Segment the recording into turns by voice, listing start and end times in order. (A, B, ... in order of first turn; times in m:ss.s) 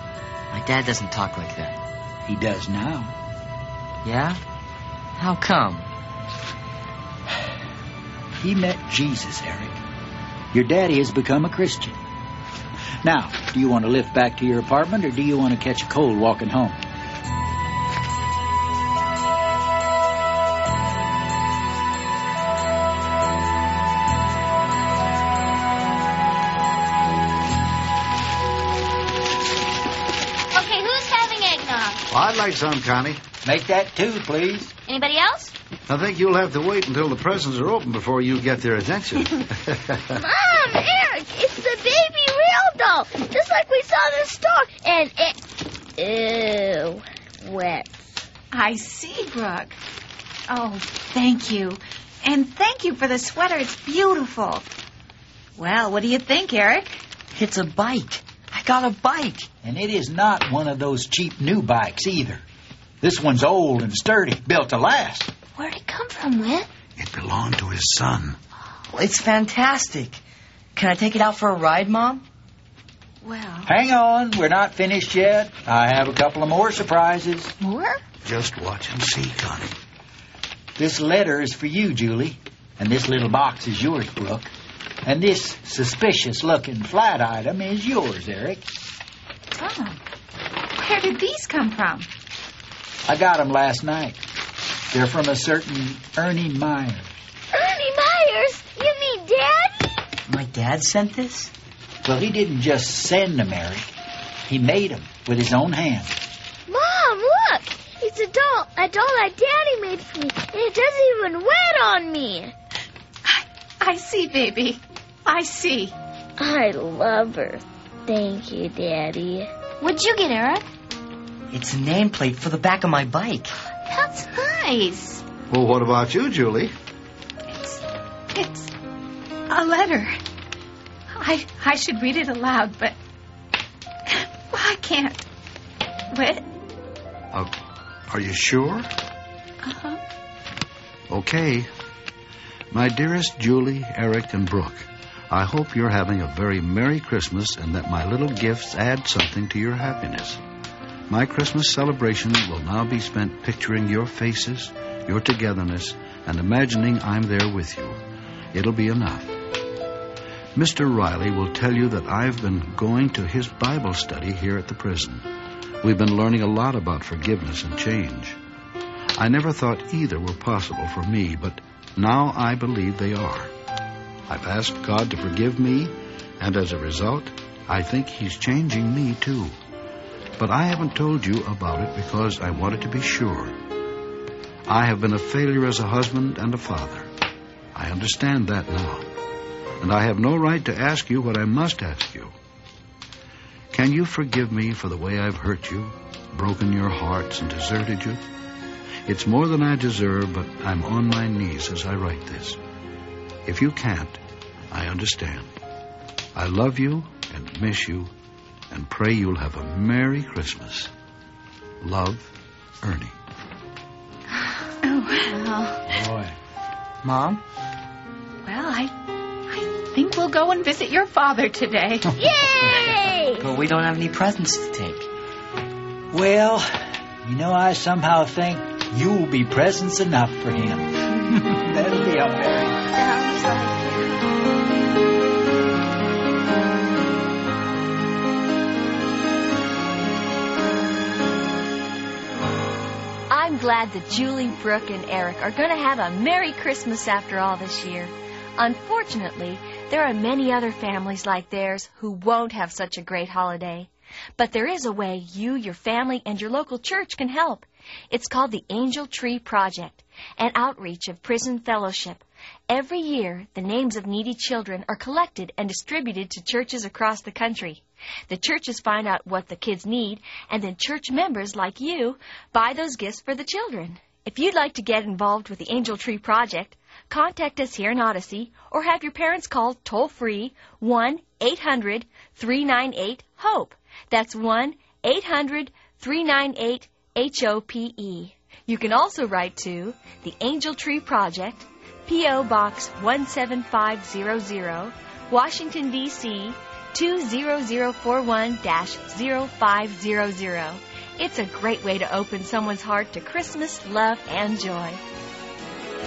0:00.5-0:01.8 A
0:02.3-0:03.1 B
0:04.0-0:04.4 A
0:05.2-0:05.9 A
0:08.4-0:09.8 B
0:10.5-0:12.0 B
0:13.0-0:16.8 B
0:30.5-0:32.0 C
0:32.1-0:33.2 D
0:33.4-0:34.7 B
0:34.9-0:35.5 C
0:35.9-0:40.2 D
0:40.1-0:48.0 E
0:48.5-0:49.8 F
0:50.5-0:54.7 F
0:55.6-0:57.0 F
0:57.3-0:59.5 A
0:59.6-1:02.4 B
1:03.0-1:05.3 B
1:05.6-1:06.7 C
1:07.0-1:08.4 D
1:08.9-1:10.2 A
1:10.8-1:12.2 A
1:13.2-1:13.7 F
1:13.7-1:17.6 B
1:17.6-1:18.0 F
1:18.2-1:19.8 D
1:20.8-1:24.5 B
1:25.0-1:28.6 B
1:29.5-1:30.0 F
1:30.8-1:32.1 F
1:33.1-1:34.2 B
1:34.9-1:37.2 B
1:37.5-1:39.9 E
1:40.3-1:41.5 A
1:42.0-1:43.9 B
1:44.5-1:46.2 B
1:46.7-1:52.5 E
1:53.2-1:56.0 F
1:56.4-1:59.5 E
1:59.8-2:00.6 C
2:01.5-2:03.6 A
2:03.9-2:05.2 C
2:05.5-2:06.7 D
2:07.5-2:08.7 F
2:09.5-2:10.2 F
2:11.2-2:13.0 F
2:14.1-2:15.3 F
2:16.1-2:16.5 F
2:18.1-2:18.9 D
2:19.6-2:20.0 F
2:21.1-2:21.7 D
2:22.7-2:30.4 D
2:31.1-2:38.0 D
2:38.5-2:39.3 D
2:40.6-2:45.3 D
2:45.8-2:48.4 D
2:49.2-2:53.5 D
2:54.3-2:59.6 D
3:00.4-3:03.6 D
3:04.7-3:07.1 D
3:07.7-3:09.1 D
3:09.8-3:12.3 D
3:13.7-3:18.2 D
3:19.1-3:22.6 D
3:23.5-3:24.2 D
3:24.7-3:25.5 D
3:26.4-3:28.1 D
3:28.7-3:30.9 D
3:31.8-3:33.2 D
3:34.8-3:35.4 F
3:35.9-3:36.3 B
3:37.0-3:37.4 A
3:38.4-3:38.9 F
3:39.5-3:42.1 F
3:42.2-3:43.5 E
3:43.4-3:45.1 A
3:46.1-3:52.8 B
3:52.9-3:54.2 C
4:03.3-5:05.0 G